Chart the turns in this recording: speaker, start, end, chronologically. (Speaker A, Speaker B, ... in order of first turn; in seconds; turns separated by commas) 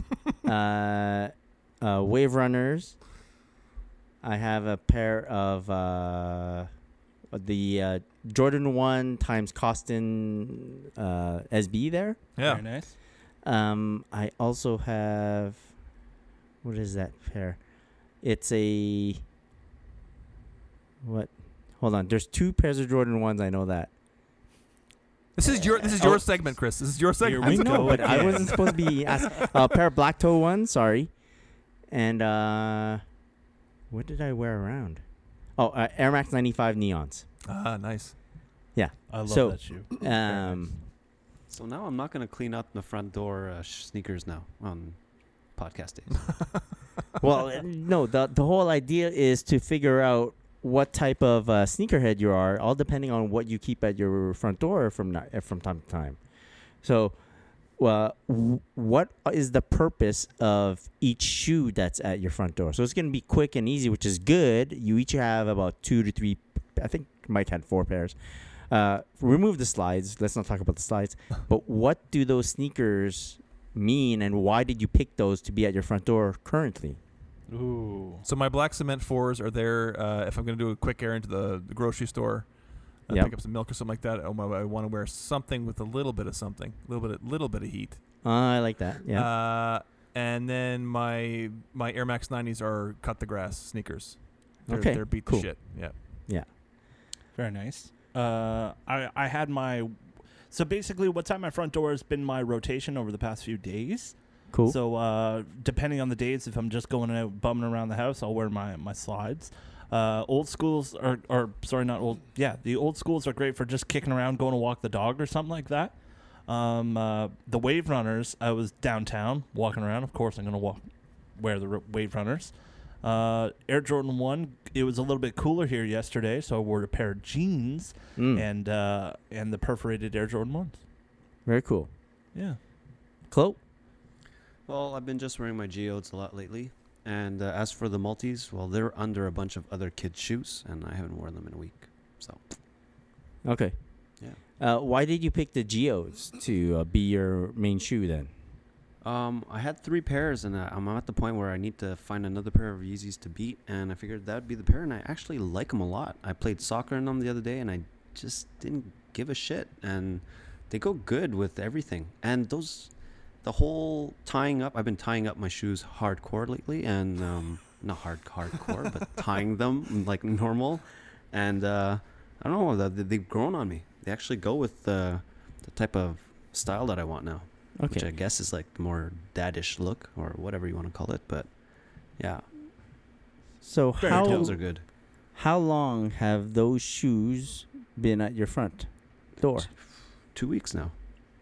Speaker A: 0.5-3.0, Speaker A: 4.2-6.7, Speaker A: 7.3-12.2, Speaker B: 12.4-12.6, Speaker C: 12.4-12.9, Speaker A: 13.4-15.7, Speaker A: 16.6-17.6, Speaker A: 18.2-19.2, Speaker A: 21.0-23.9, Speaker B: 25.4-29.5, Speaker A: 25.5-26.3, Speaker C: 27.2-28.7, Speaker A: 27.4-31.1, Speaker A: 31.9-33.0, Speaker A: 33.9-35.0, Speaker A: 35.6-37.3, Speaker B: 37.5-38.1, Speaker A: 38.8-40.8, Speaker C: 39.1-40.8, Speaker D: 41.5-45.0, Speaker D: 45.5-46.3, Speaker A: 47.2-56.2, Speaker A: 56.8-57.2, Speaker A: 57.8-68.2, Speaker A: 68.7-77.0, Speaker C: 77.5-78.2, Speaker B: 78.2-88.0, Speaker A: 88.2-89.3, Speaker B: 89.1-96.0, Speaker A: 94.7-95.8, Speaker C: 97.3-99.9, Speaker C: 100.5-116.0, Speaker A: 104.5-104.8, Speaker C: 116.5-130.8, Speaker A: 128.2-128.4, Speaker A: 131.5-131.9, Speaker A: 133.3-133.6, Speaker D: 134.7-142.4, Speaker A: 143.4-143.8, Speaker A: 144.6-148.3, Speaker D: 149.0-181.5, Speaker A: 177.8-178.1, Speaker D: 182.2-182.5, Speaker A: 183.6-184.6, Speaker C: 184.0-184.5, Speaker D: 184.0-184.8, Speaker A: 185.3-189.7, Speaker D: 190.3-190.9